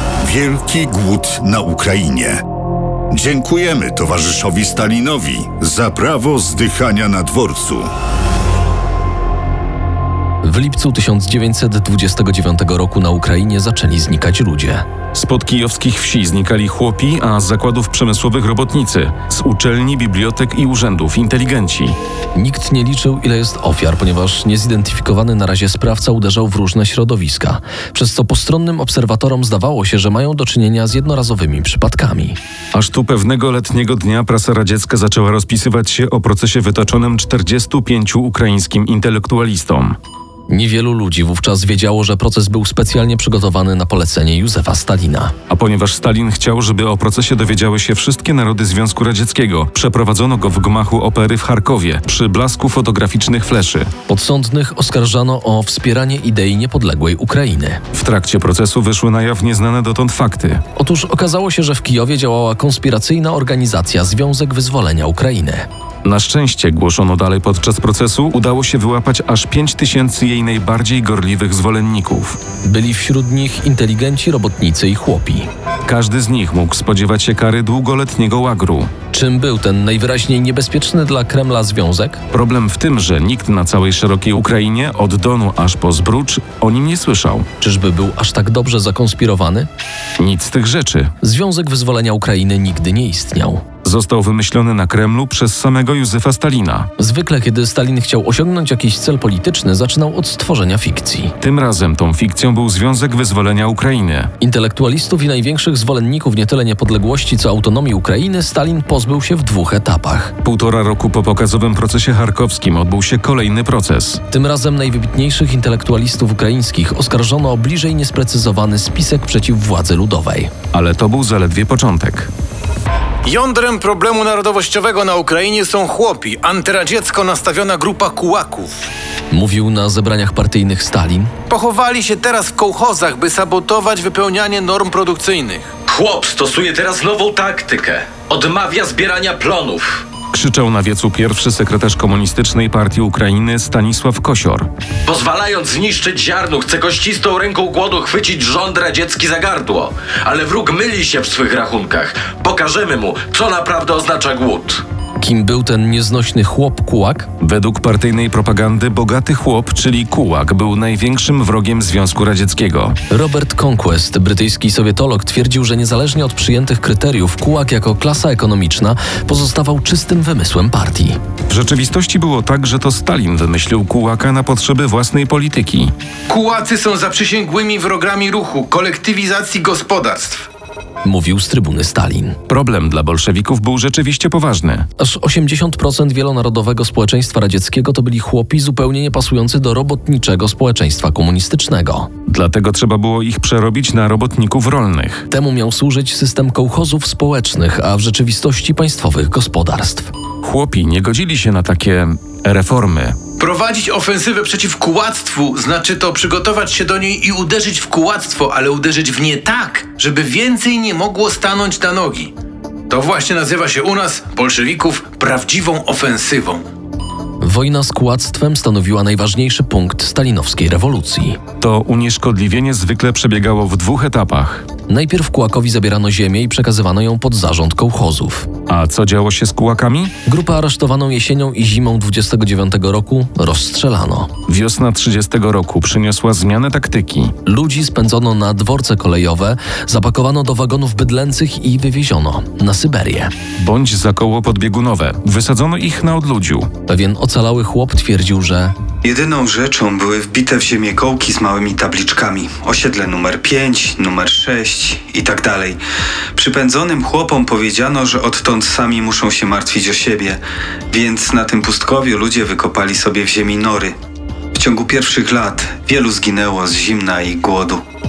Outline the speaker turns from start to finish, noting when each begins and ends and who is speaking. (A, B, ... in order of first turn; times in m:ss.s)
0:00.2-0:02.4 A
0:03.1-0:07.9 A
0:10.4-0:14.8 B
0:15.1-0:22.0 C
0:22.4-0:32.4 B
0:32.7-0:40.0 C
0:40.5-0:45.3 B
0:45.5-0:53.9 C
0:54.1-0:57.8 B
0:57.9-1:00.6 C
1:00.8-1:05.7 B
1:06.0-1:12.4 C
1:12.6-1:15.5 B
1:15.9-1:18.9 C
1:19.1-1:22.2 B
1:22.3-1:27.4 C
1:27.6-1:29.7 B
1:30.2-1:31.1 C
1:31.2-1:33.6 B
1:33.8-1:36.9 C
1:37.0-1:41.3 B
1:41.4-1:44.3 C
1:44.4-1:50.3 B
1:50.4-1:54.2 C
1:54.3-2:00.5 B
2:00.7-2:02.3 C
2:03.2-2:08.7 D
2:09.3-2:11.3 B
2:11.5-2:15.7 D
2:15.9-2:20.0 E
2:20.3-2:24.7 C
2:25.0-2:34.8 E
2:35.2-2:37.3 B
2:37.4-2:43.0 C
2:43.1-2:51.2 B
2:51.5-2:55.9 C
2:56.3-3:00.5 D
3:01.0-3:02.4 B
3:02.5-3:04.9 C
3:05.0-3:12.1 B
3:12.3-3:15.2 C
3:15.3-3:20.1 B
3:20.4-3:23.2 C
3:23.4-3:32.3 D
3:32.9-3:36.6 D
3:37.4-3:41.4 B
3:41.6-3:44.6 C
3:44.9-3:48.5 B
3:48.7-3:50.1 C
3:50.3-3:54.3 B
3:54.5-3:57.3 C
3:57.5-4:03.3 B
4:03.6-4:06.7 C
4:06.9-4:08.7 B
4:09.0-4:15.8 F
4:16.4-4:23.9 F
4:24.5-4:27.8 F